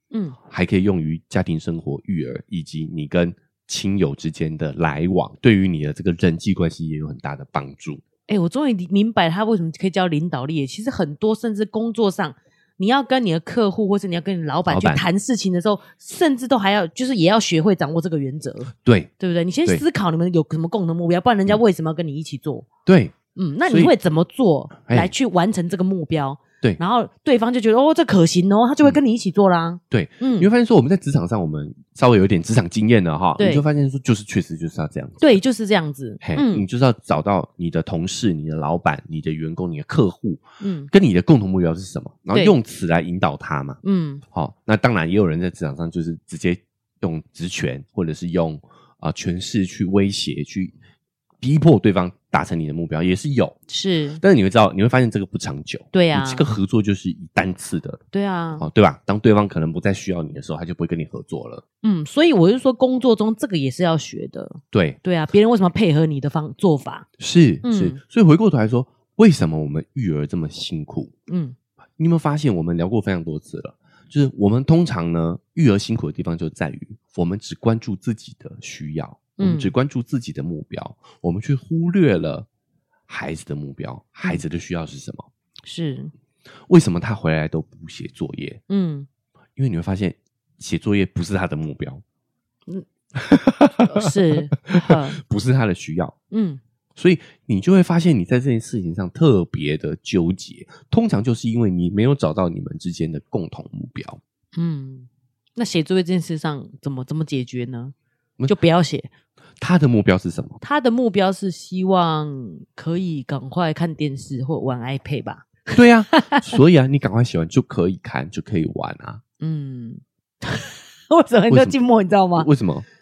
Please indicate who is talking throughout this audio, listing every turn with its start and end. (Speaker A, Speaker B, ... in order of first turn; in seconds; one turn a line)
Speaker A: 0.1-0.4
Speaker B: 0.5-8.0
Speaker A: 8.3-22.7
Speaker B: 14.7-15.1
Speaker B: 18.8-19.1
Speaker B: 22.9-23.2
Speaker A: 23.4-30.5
Speaker B: 23.7-23.9
Speaker B: 24.9-25.1
Speaker B: 29.9-35.4
Speaker A: 33.4-33.6
Speaker A: 35.2-36.6
Speaker B: 36.2-43.8
Speaker A: 40.6-40.9
Speaker A: 43.8-44.2
Speaker B: 44.3-50.7
Speaker B: 51.4-53.6
Speaker A: 53.7-54.2
Speaker B: 54.2-58.0
Speaker A: 55.9-56.5
Speaker A: 58.1-58.6
Speaker B: 58.6-61.6
Speaker A: 61.8-67.1
Speaker B: 64.7-65.0
Speaker B: 67.2-71.1
Speaker A: 67.6-68.0
Speaker A: 71.3-71.6
Speaker B: 72.0-82.5
Speaker A: 79.4-79.7
Speaker B: 83.1-85.3
Speaker A: 85.7-86.1
Speaker B: 86.7-88.6
Speaker A: 88.7-89.1
Speaker B: 89.6-92.0
Speaker B: 93.2-96.2
Speaker A: 93.8-95.2
Speaker A: 96.3-96.6
Speaker B: 97.0-104.2
Speaker A: 104.6-107.9
Speaker A: 108.5-109.1
Speaker B: 109.6-110.6
Speaker A: 110.6-116.5
Speaker B: 115.7-119.2
Speaker A: 119.4-122.5
Speaker B: 121.5-121.8
Speaker B: 122.4-122.9